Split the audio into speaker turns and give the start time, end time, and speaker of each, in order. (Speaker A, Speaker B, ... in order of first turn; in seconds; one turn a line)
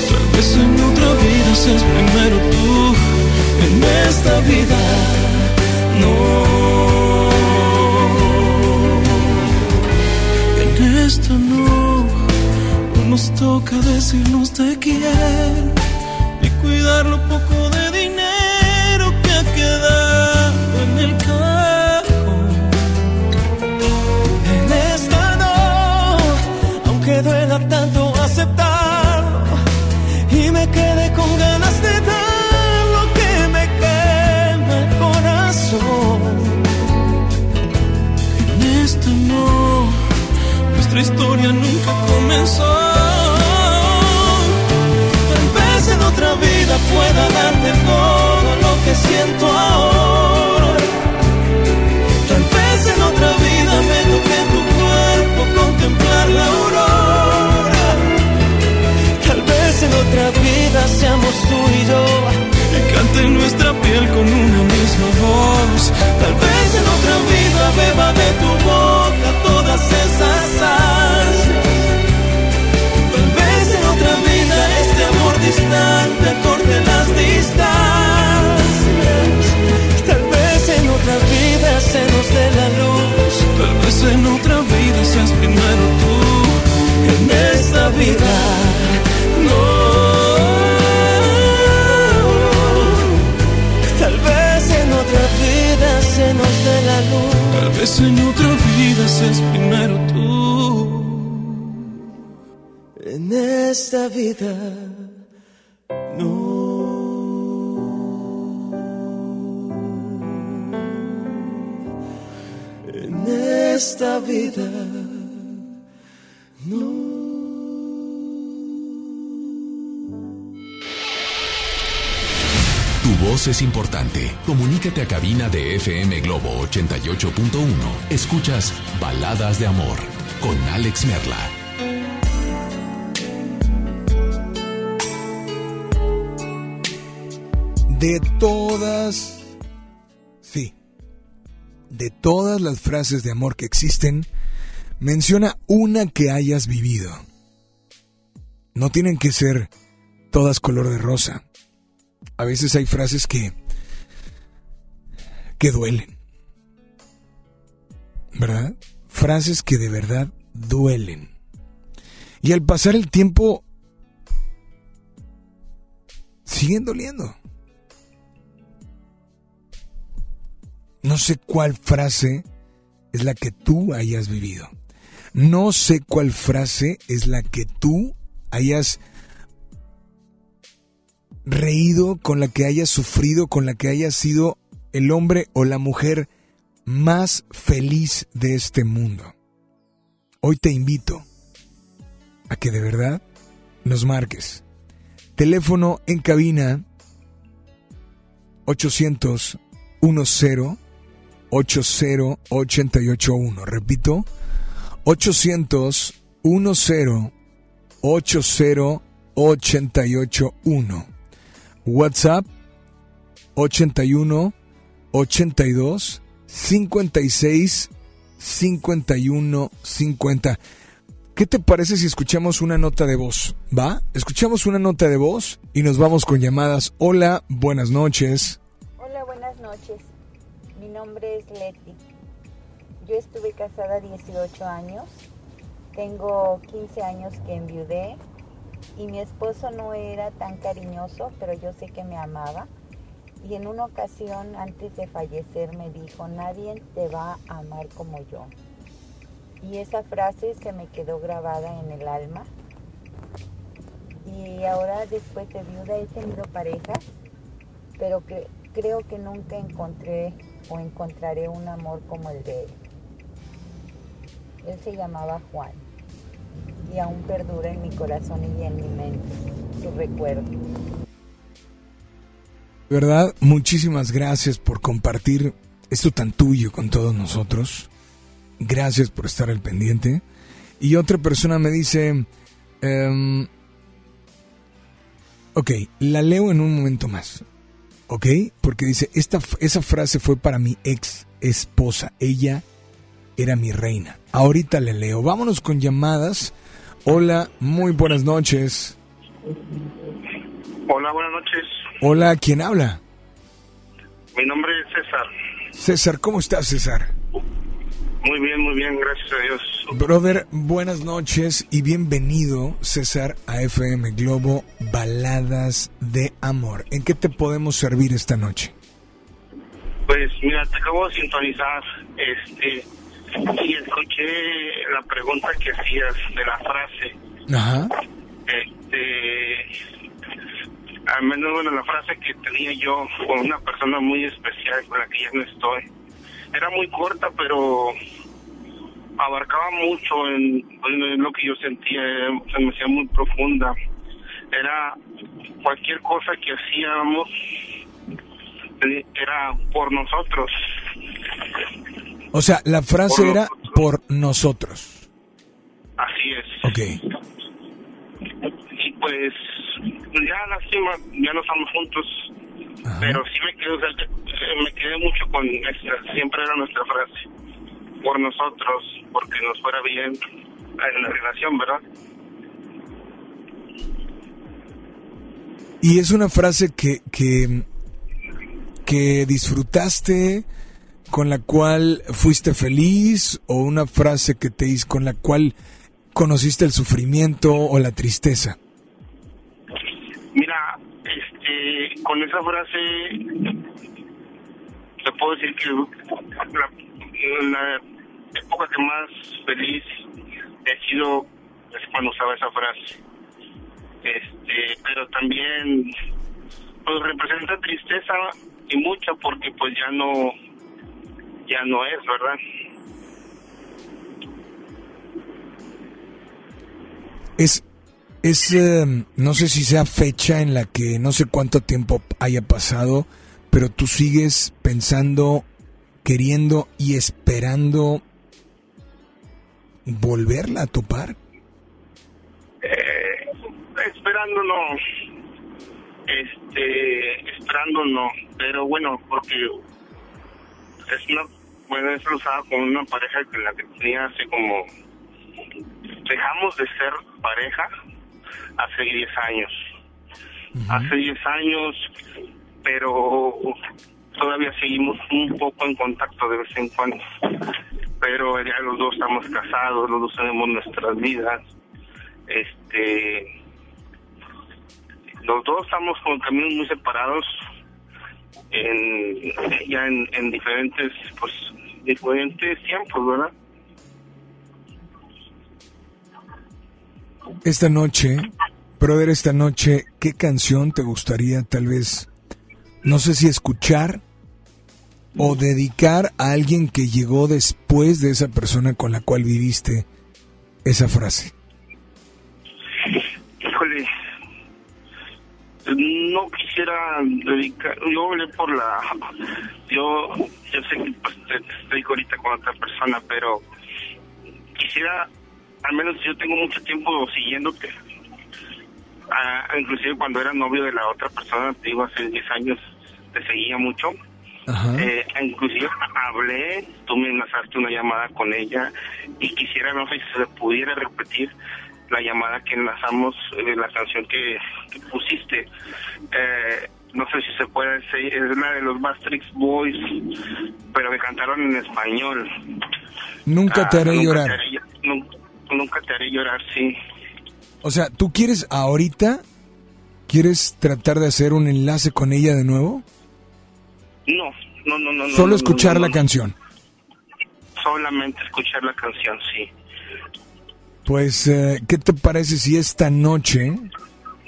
Speaker A: 3.6-8.2
Speaker A: 20.3-22.8
Speaker A: 24.4-29.6
Speaker A: 30.3-36.7
Speaker A: 38.6-39.8
Speaker A: 41.1-44.3
Speaker A: 45.3-50.9
Speaker A: 52.2-58.0
Speaker A: 59.2-71.6
Speaker A: 73.1-83.7
Speaker A: 86.1-86.5
Speaker A: 87.0-93.0
Speaker A: 93.9-97.8
Speaker A: 100.1-101.5
Speaker A: 103.0-105.1
Speaker A: 106.1-107.4
Speaker A: 112.8-115.4
Speaker A: 116.6-117.7
Speaker B: 123.0-131.5
Speaker C: 137.9-139.5
Speaker C: 140.4-140.7
Speaker C: 141.9-144.3
Speaker C: 145.0-147.2
Speaker C: 148.7-149.7
Speaker C: 150.3-151.4
Speaker C: 152.4-153.5
Speaker C: 155.6-156.2
Speaker C: 158.3-161.3
Speaker C: 162.4-163.6
Speaker C: 166.4-167.4
Speaker C: 171.0-172.4
Speaker C: 173.1-174.7
Speaker C: 175.3-179.0
Speaker C: 181.4-186.3
Speaker C: 186.8-189.3
Speaker C: 190.4-191.2
Speaker C: 192.5-193.2
Speaker C: 193.8-194.6
Speaker C: 195.3-196.8
Speaker C: 198.7-200.8
Speaker C: 201.5-204.3
Speaker C: 205.0-207.3
Speaker C: 208.0-211.1
Speaker C: 211.8-212.5
Speaker C: 213.5-214.5
Speaker C: 215.1-220.6
Speaker C: 221.3-228.6
Speaker D: 229.0-230.1
Speaker D: 230.7-232.0
Speaker D: 233.0-235.1
Speaker D: 235.9-238.2
Speaker D: 238.9-242.7
Speaker D: 243.4-248.5
Speaker D: 249.6-252.5
Speaker D: 254.2-257.0
Speaker D: 258.0-262.8
Speaker D: 264.6-265.8
Speaker D: 266.8-270.5
Speaker C: 272.9-277.9
Speaker C: 278.6-280.2
Speaker C: 280.8-282.3
Speaker C: 282.8-283.5
Speaker C: 285.5-287.4
Speaker C: 288.1-292.6
Speaker C: 293.4-296.5
Speaker C: 297.0-299.0
Speaker E: 300.9-301.8
Speaker C: 302.0-303.0
Speaker E: 304.3-305.3
Speaker C: 305.7-307.1
Speaker E: 308.2-309.9
Speaker C: 309.9-318.7
Speaker E: 320.1-327.1
Speaker C: 327.5-327.9
Speaker E: 328.5-329.7
Speaker E: 331.1-335.8
Speaker E: 336.5-337.9
Speaker E: 339.2-343.7
Speaker E: 344.5-345.0
Speaker E: 345.6-347.3
Speaker E: 348.8-350.5
Speaker C: 352.3-355.1
Speaker E: 353.1-353.7
Speaker E: 356.0-356.6
Speaker C: 356.6-357.0
Speaker E: 358.8-362.3
Speaker C: 362.8-363.2
Speaker E: 363.0-367.3
Speaker E: 368.0-370.2
Speaker E: 370.8-371.8
Speaker C: 375.8-377.6
Speaker C: 378.9-380.4
Speaker C: 381.1-385.5
Speaker C: 386.1-388.6
Speaker E: 390.3-393.6
Speaker E: 395.0-397.8
Speaker E: 398.3-400.1
Speaker E: 400.6-402.9
Speaker E: 404.0-405.9
Speaker E: 406.8-410.3
Speaker E: 411.5-412.4
Speaker C: 417.4-417.6
Speaker C: 418.2-425.4
Speaker C: 426.0-428.0
Speaker C: 429.9-431.1
Speaker E: 432.6-434.8
Speaker E: 436.1-439.6
Speaker E: 440.9-444.7
Speaker E: 446.1-447.7
Speaker E: 448.6-449.6
Speaker C: 450.5-450.9
Speaker E: 450.7-451.8
Speaker E: 452.6-453.6
Speaker E: 454.1-457.3
Speaker E: 458.0-461.4
Speaker E: 462.3-463.3
Speaker E: 465.2-467.4
Speaker E: 468.5-473.3
Speaker C: 477.4-478.3
Speaker C: 478.8-482.1
Speaker C: 482.8-484.0
Speaker C: 485.2-489.9
Speaker C: 490.6-491.3
Speaker E: 492.9-493.9
Speaker E: 495.6-498.9
Speaker E: 499.7-503.4
Speaker E: 504.6-505.1
Speaker E: 505.6-507.7
Speaker E: 509.1-513.9
Speaker C: 514.5-514.9
Speaker E: 514.8-521.3
Speaker E: 521.9-525.5
Speaker E: 526.1-530.0
Speaker E: 530.7-532.3
Speaker C: 533.3-534.3
Speaker E: 533.5-536.8
Speaker C: 537.6-539.2
Speaker C: 540.1-542.8
Speaker E: 544.1-546.0
Speaker C: 545.1-546.3
Speaker E: 547.6-549.5
Speaker C: 550.9-553.7